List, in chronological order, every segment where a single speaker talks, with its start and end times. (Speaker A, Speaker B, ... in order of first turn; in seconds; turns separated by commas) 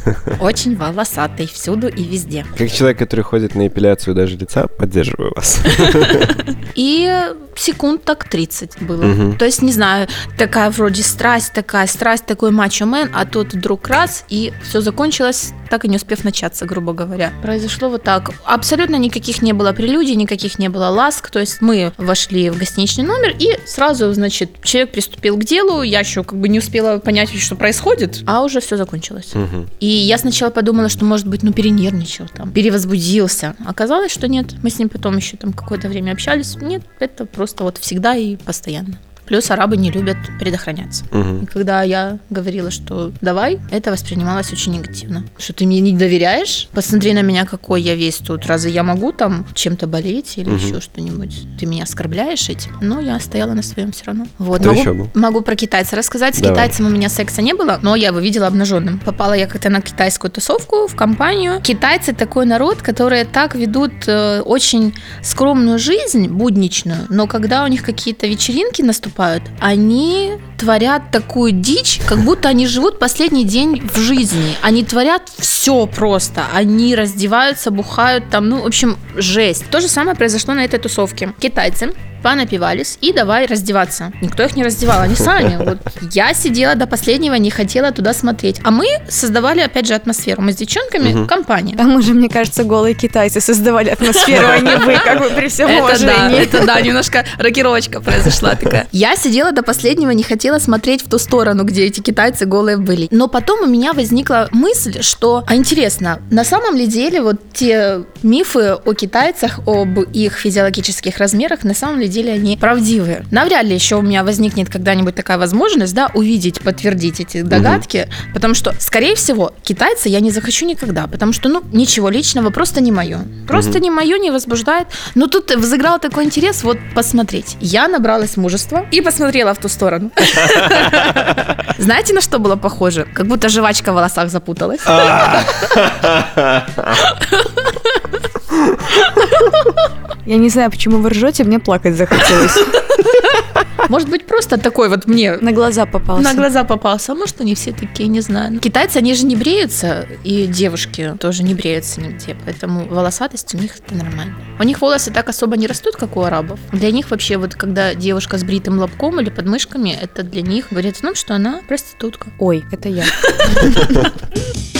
Speaker A: 0.3-2.5, Speaker B: 2.5-6.4, Speaker A: 6.7-91.8, Speaker B: 9.0-9.4, Speaker B: 29.3-29.7, Speaker B: 41.1-41.5, Speaker B: 50.5-50.8, Speaker B: 54.6-55.1, Speaker B: 56.4-56.7, Speaker B: 91.0-91.3, Speaker C: 91.8-96.7, Speaker A: 94.1-95.0, Speaker A: 95.6-135.8, Speaker B: 117.5-117.8, Speaker B: 123.5-123.8, Speaker B: 134.8-137.0, Speaker A: 136.9-138.0, Speaker A: 139.0-139.7, Speaker C: 140.2-142.9, Speaker A: 142.3-145.5, Speaker C: 145.4-146.5, Speaker A: 146.2-162.3, Speaker C: 162.4-164.1, Speaker A: 163.2-163.7